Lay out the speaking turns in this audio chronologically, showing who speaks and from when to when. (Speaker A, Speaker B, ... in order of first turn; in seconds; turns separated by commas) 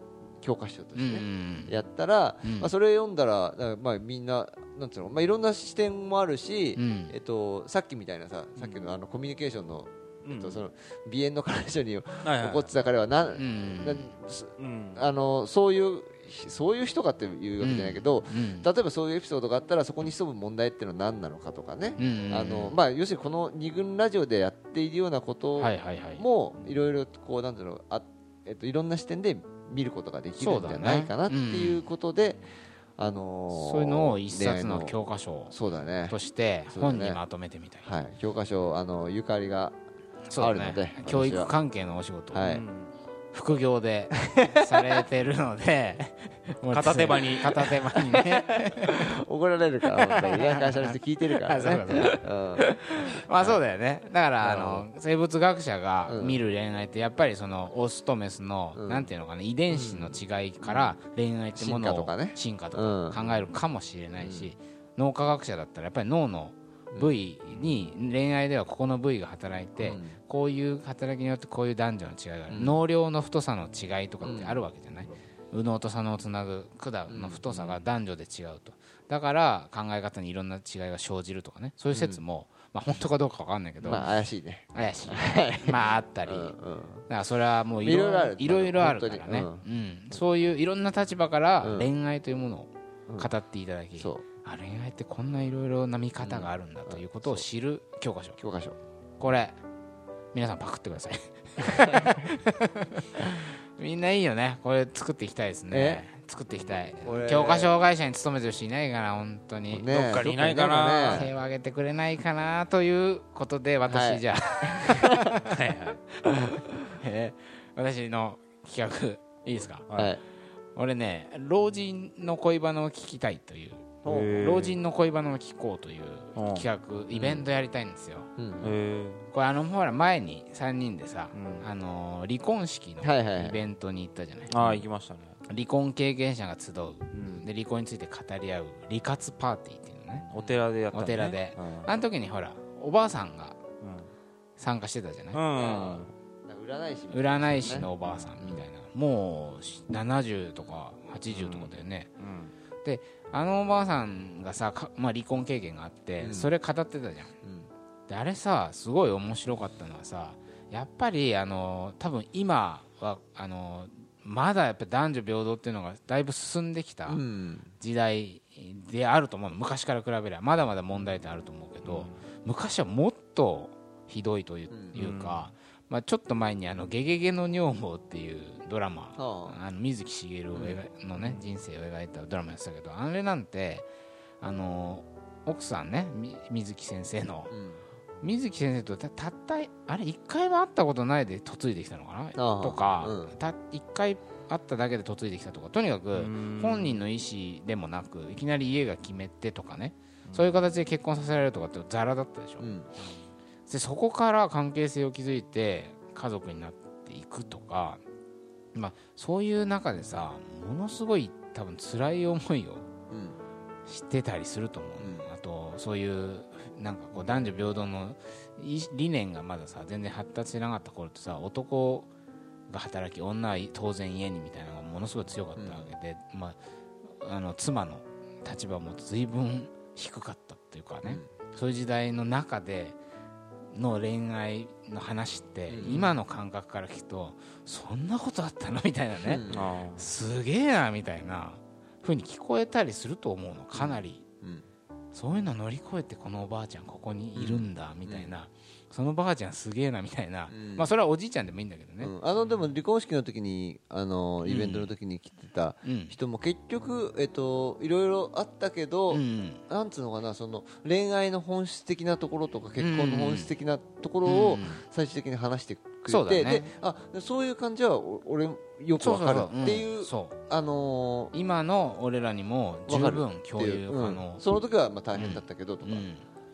Speaker A: 0.4-32.4, Speaker B: 0.9-1.7, Speaker B: 2.4-2.7, Speaker B: 6.8-7.1, Speaker C: 10.2-10.6, Speaker C: 12.2-12.7, Speaker B: 13.3-14.1, Speaker C: 14.6-15.1, Speaker B: 17.6-18.7, Speaker B: 22.0-22.7, Speaker B: 25.6-26.2, Speaker B: 30.4-31.8, Speaker A: 33.0-35.0, Speaker B: 33.5-35.5, Speaker A: 35.5-36.2, Speaker B: 36.1-37.9, Speaker A: 36.7-37.2, Speaker A: 37.8-39.8, Speaker B: 40.3-42.5, Speaker A: 40.4-41.5, Speaker A: 42.3-42.6, Speaker C: 42.4-42.9, Speaker B: 43.3-49.1, Speaker C: 46.7-47.8, Speaker A: 47.9-52.7, Speaker B: 49.9-84.1, Speaker A: 53.3-53.6, Speaker A: 54.4-54.9, Speaker A: 56.1-56.4, Speaker A: 58.7-59.1, Speaker A: 59.7-61.0, Speaker A: 61.5-63.5, Speaker A: 64.2-64.5, Speaker A: 69.8-70.2, Speaker A: 72.5-72.8, Speaker A: 74.2-74.6, Speaker A: 77.1-77.8, Speaker A: 81.9-82.2, Speaker A: 83.8-87.1, Speaker B: 84.7-86.5, Speaker B: 87.1-98.4, Speaker A: 87.8-89.6, Speaker A: 91.6-91.9, Speaker A: 94.0-94.2, Speaker A: 96.2-97.4, Speaker A: 98.4-98.8, Speaker B: 99.2-99.6, Speaker B: 100.3-115.5, Speaker A: 101.6-102.2, Speaker A: 105.7-106.0, Speaker A: 107.0-107.8, Speaker A: 109.7-111.3, Speaker C: 110.2-111.3, Speaker A: 113.9-115.4, Speaker C: 115.5-116.0, Speaker B: 116.2-119.8, Speaker C: 119.9-120.2, Speaker A: 120.0-120.2, Speaker B: 120.8-128.3, Speaker A: 124.0-124.4, Speaker C: 124.0-124.8, Speaker C: 126.3-127.4, Speaker A: 128.3-128.7, Speaker C: 128.6-129.3, Speaker B: 129.3-134.8, Speaker C: 131.3-131.7, Speaker A: 133.0-133.6, Speaker C: 134.5-135.4, Speaker B: 135.5-140.2, Speaker C: 137.1-137.4, Speaker C: 140.1-141.4, Speaker B: 140.9-143.6, Speaker A: 141.6-141.9, Speaker C: 143.8-144.1, Speaker B: 144.6-145.4, Speaker C: 145.3-146.1, Speaker A: 145.5-147.9, Speaker B: 147.1-152.1, Speaker C: 148.0-148.3, Speaker C: 151.3-152.5, Speaker B: 152.8-157.3, Speaker A: 156.2-156.5, Speaker A: 157.4-157.7, Speaker B: 158.1-167.2, Speaker A: 167.1-167.7, Speaker B: 167.8-183.9, Speaker C: 171.8-172.2, Speaker A: 174.7-174.9, Speaker C: 174.9-175.5, Speaker A: 179.2-179.6, Speaker A: 180.5-180.8, Speaker B: 184.4-187.5, Speaker A: 187.5-187.8, Speaker B: 188.2-202.7, Speaker A: 192.3-193.3, Speaker C: 196.1-197.0, Speaker C: 200.2-200.5, Speaker A: 202.6-202.9, Speaker B: 203.7-208.0, Speaker B: 208.7-212.8, Speaker A: 213.1-213.4, Speaker B: 213.9-222.1, Speaker A: 215.0-215.2, Speaker B: 222.7-233.0, Speaker A: 225.6-225.9, Speaker A: 231.0-231.3, Speaker B: 233.7-239.4, Speaker A: 235.7-236.2, Speaker A: 239.2-239.7, Speaker C: 239.5-240.0, Speaker B: 239.9-244.2, Speaker A: 243.7-244.7, Speaker B: 245.1-252.1, Speaker A: 247.3-248.3, Speaker A: 250.5-250.9, Speaker A: 252.0-271.3, Speaker B: 254.4-254.9, Speaker B: 255.8-256.1, Speaker B: 259.1-259.6, Speaker B: 262.8-263.5, Speaker B: 264.2-264.8, Speaker B: 266.1-266.7, Speaker B: 269.0-270.4, Speaker B: 271.3-274.4, Speaker A: 272.9-276.1, Speaker B: 275.1-276.2